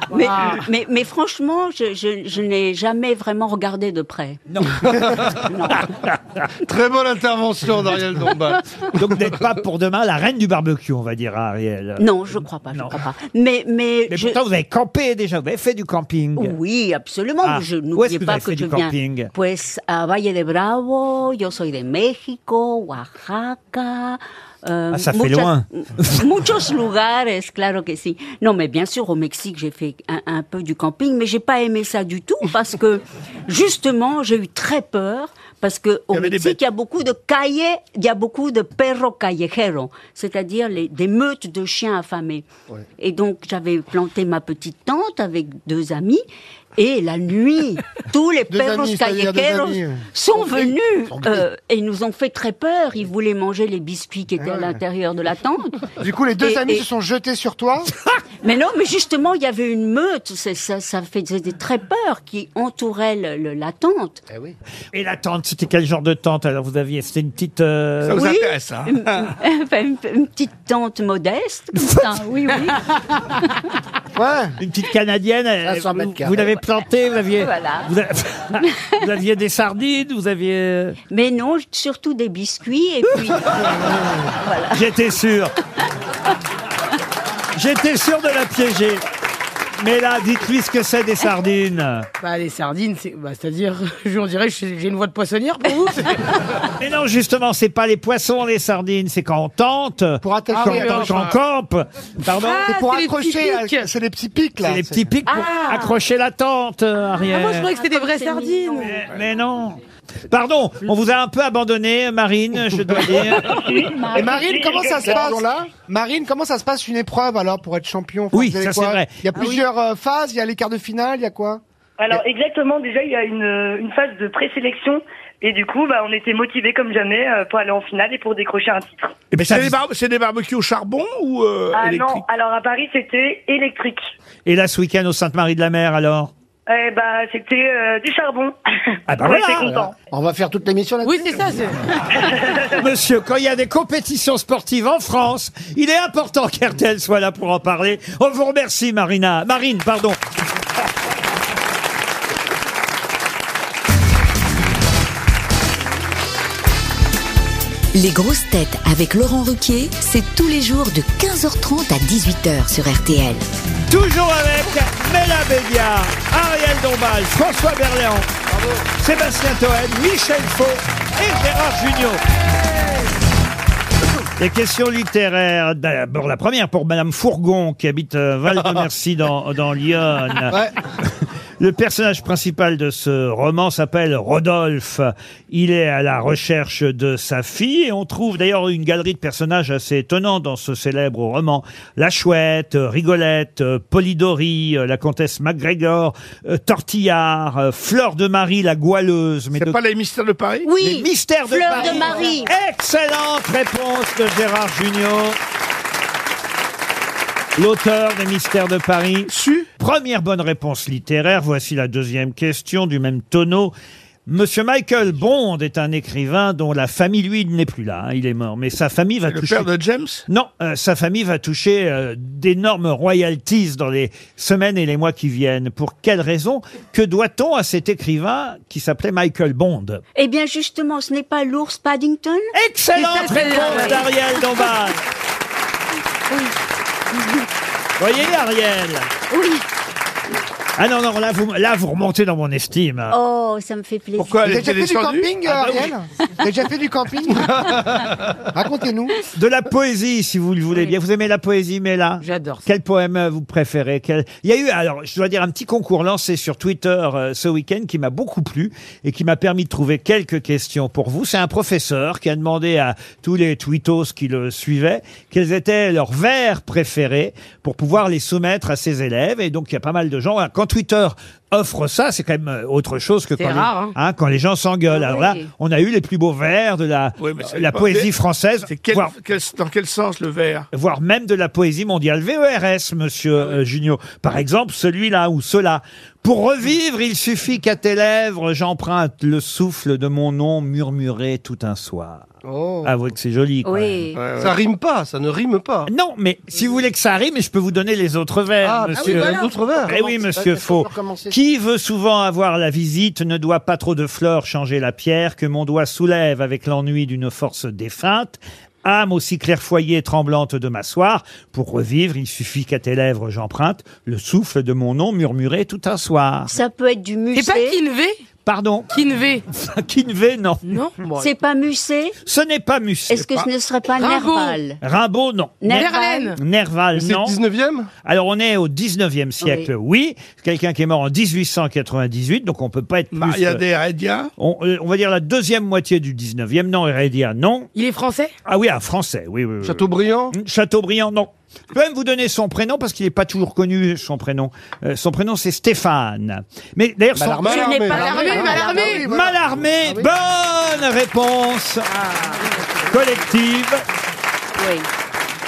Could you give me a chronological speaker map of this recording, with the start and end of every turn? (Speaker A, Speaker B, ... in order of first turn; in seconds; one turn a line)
Speaker A: 0.1-4.4
Speaker B: 4.5-4.9
Speaker A: 5.3-5.8
Speaker C: 6.6-8.7
Speaker B: 8.9-13.0
Speaker A: 12.0-14.4
Speaker B: 14.1-16.6
Speaker A: 16.4-42.5
Speaker B: 17.4-19.3
Speaker B: 24.9-26.2
Speaker D: 36.1-36.6
Speaker A: 43.0-46.2
Speaker A: 46.8-55.8
Speaker E: 48.5-50.0
Speaker F: 51.1-51.5
Speaker E: 54.4-54.8
Speaker E: 56.0-57.9
Speaker A: 56.4-56.8
Speaker A: 58.4-64.2
Speaker F: 64.3-64.5
Speaker B: 64.9-68.2
Speaker D: 68.0-69.3
Speaker A: 68.1-73.6
Speaker B: 71.8-72.1
Speaker E: 74.1-74.6
Speaker B: 74.6-81.0
Speaker F: 75.6-76.5
Speaker A: 77.4-77.9
Speaker A: 78.6-79.0
Speaker A: 81.1-83.6
Speaker A: 84.4-84.8
Speaker B: 84.7-85.5
Speaker B: 87.5-89.0
Speaker B: 89.8-92.1
Speaker G: 92.2-96.4
Speaker B: 96.8-102.7
Speaker E: 100.2-101.3
Speaker G: 100.5-101.3
Speaker G: 102.2-103.9
Speaker E: 102.7-105.1
Speaker B: 104.6-107.7
Speaker A: 105.3-106.0
Speaker G: 107.2-109.0
Speaker A: 107.6-109.0
Speaker B: 108.8-109.8
Speaker B: 110.3-113.6
Speaker A: 113.5-114.5
Speaker H: 113.5-115.3
Speaker E: 114.1-121.6
Speaker F: 115.0-115.7
Speaker B: 118.3-119.4
Speaker H: 122.0-129.2
Speaker D: 129.3-132.2
Speaker B: 129.3-129.8
Speaker H: 131.7-134.1
Speaker B: 134.4-136.3
Speaker H: 136.7-139.9
Speaker B: 139.1-139.7
Speaker F: 139.6-141.7
Speaker G: 141.0-141.8
Speaker H: 142.2-142.7
Speaker B: 142.7-150.2
Speaker I: 157.9-163.4
Speaker B: 163.9-168.3
Speaker B: 169.0-172.2
Speaker B: 174.4-199.8
Speaker D: 199.5-200.7
Speaker A: 200.6-202.5
Speaker B: 200.8-205.4
Speaker D: 201.7-202.2
Speaker B: 207.6-213.7
Speaker D: 209.3-209.7
Speaker B: 214.2-219.7
Speaker D: 219.3-220.2
Speaker B: 220.3-230.0
Speaker A: 230.2-232.5
Speaker B: 232.5-235.0
Speaker G: 232.9-234.1
Speaker A: 233.2-234.0
Speaker B: 238.0-239.1
Speaker A: 239.3-239.6
Speaker B: 240.8-243.1
Speaker A: 243.1-244.5
Speaker D: 244.2-245.8
Speaker E: 244.4-247.8
Speaker E: 248.5-249.2
Speaker B: 249.2-279.1
Speaker G: 252.2-252.7
Speaker G: 273.4-273.9
Speaker A: 274.9-275.5
Speaker D: 277.2-278.1
Speaker D: 278.6-280.7
Speaker B: 280.7-292.2
Speaker C: 292.5-292.9
Speaker B: 292.8-294.1
Speaker A: 293.6-294.2
Speaker D: 294.1-294.6
Speaker C: 294.4-295.9
Speaker B: 295.9-316.5
Speaker C: 298.6-299.9
Speaker F: 299.8-301.4
Speaker A: 316.5-317.8
Speaker G: 317.3-318.2
Speaker B: 318.4-318.9
Speaker G: 318.9-319.4
Speaker B: 319.5-320.7
Speaker G: 320.6-321.3
Speaker A: 321.1-322.1
Speaker B: 322.2-323.3
Speaker A: 323.1-324.8
Speaker G: 323.9-324.6
Speaker B: 324.8-327.4
Speaker A: 325.6-326.3
Speaker G: 325.7-326.4
Speaker C: 326.9-327.9
Speaker B: 328.0-333.6
Speaker A: 329.4-329.7
Speaker D: 333.1-334.3
Speaker B: 334.4-337.7
Speaker G: 337.7-338.3
Speaker B: 338.4-347.9
Speaker C: 339.6-340.4
Speaker F: 347.2-347.6
Speaker C: 347.4-348.1
Speaker A: 347.5-349.0
Speaker E: 347.5-350.1
Speaker G: 347.9-349.1
Speaker B: 349.0-351.9
Speaker G: 351.9-352.9
Speaker B: 352.8-353.8
Speaker A: 354.6-354.9